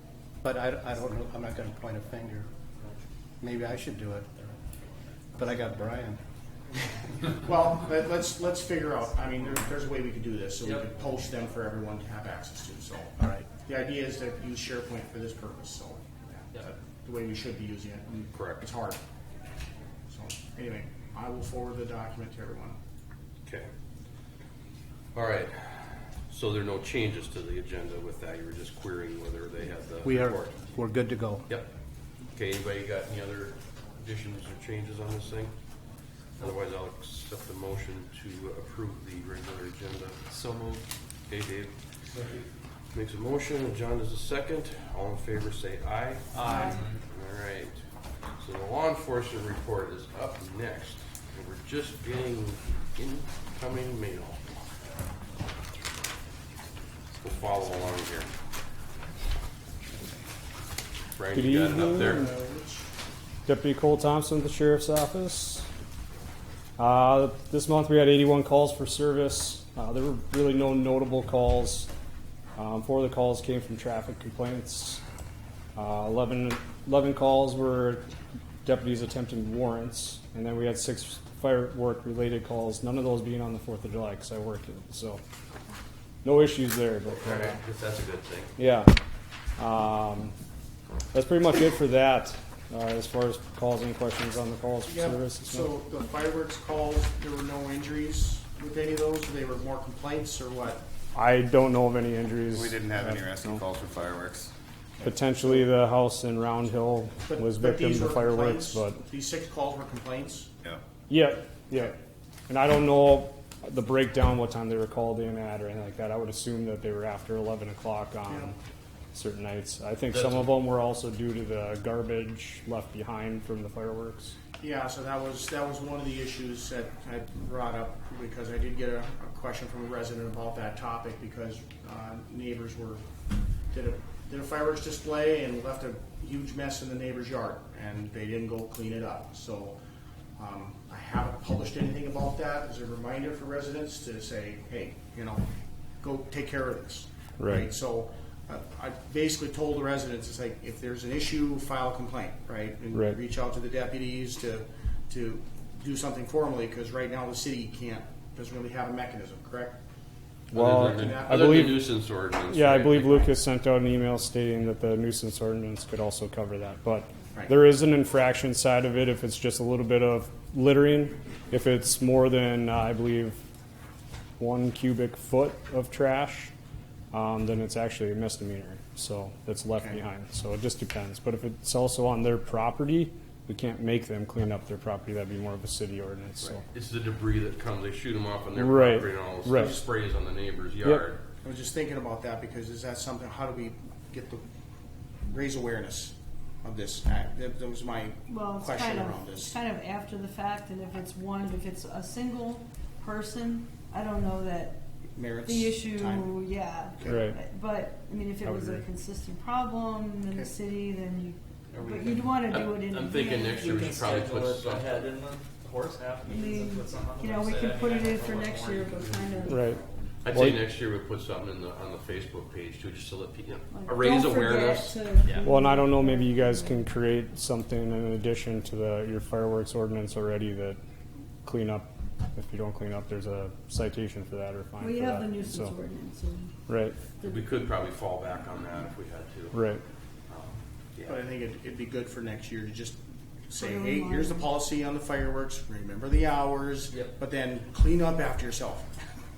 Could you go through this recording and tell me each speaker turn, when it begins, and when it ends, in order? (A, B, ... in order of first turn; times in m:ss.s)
0:00.4-0:02.5 A
0:03.4-0:04.5 A
0:05.4-0:06.2 A
0:07.4-0:19.0 B
0:13.2-0:13.5 A
0:18.3-0:18.7 C
0:20.1-0:22.8 B
0:25.1-0:30.6 C
0:30.0-0:31.5 A
0:32.3-0:35.5 C
0:36.4-0:40.2 C
0:40.3-0:40.8 D
0:41.3-0:41.8 C
0:42.9-0:47.8 C
0:46.4-0:46.9 D
0:48.4-0:54.5 C
0:57.2-0:58.3 C
1:01.2-1:02.3 C
1:01.3-1:02.3 E
1:01.8-1:02.9 B
1:03.5-1:05.7 E
1:06.8-1:11.9 E
1:12.6-1:15.0 E
1:15.8-1:18.1 E
1:18.6-1:25.2 E
1:26.2-1:27.6 E
1:27.1-1:28.5 C
1:28.6-1:28.9 E
1:29.6-1:30.3 E
1:31.1-1:35.7 E
1:34.9-1:40.8 B
1:41.1-1:43.6 E
1:42.5-1:44.5 F
1:45.0-1:45.6 B
1:45.0-1:49.0 E
1:47.3-1:50.5 B
1:51.1-1:52.0 E
1:52.5-1:58.6 E
1:59.1-2:04.3 E
2:00.1-2:00.5 C
2:04.6-2:13.0 B
2:13.7-2:19.8 B
2:20.4-2:25.4 B
2:26.0-2:39.8 B
2:27.4-2:27.7 E
2:40.5-2:41.9 E
2:40.5-2:43.3 C
2:40.7-2:41.8 B
2:42.5-2:53.4 E
2:54.4-2:56.5 E
2:57.1-3:06.6 E
3:06.4-3:11.2 C
3:08.6-3:09.8 E
3:11.4-3:14.4 B
3:15.3-3:19.6 B
3:18.3-3:24.8 G
3:25.2-3:26.4 B
3:25.4-3:33.7 G
3:27.0-3:27.2 B
3:27.1-3:27.4 E
3:28.4-3:28.8 E
3:31.7-3:32.4 D
3:32.5-3:35.1 C
3:33.5-3:40.1 D
3:36.2-3:39.5 G
3:39.5-3:39.8 E
3:40.2-3:45.0 C
3:40.3-3:40.6 E
3:43.7-3:46.9 G
3:45.4-3:50.8 E
3:51.4-3:55.7 E
3:54.8-3:56.7 G
3:56.7-3:57.0 E
3:57.2-3:57.7 G
3:57.2-3:59.6 C
3:59.5-3:59.8 E
4:00.3-4:01.2 C
4:01.1-4:03.0 B
4:03.5-4:08.9 B
4:03.6-4:04.6 G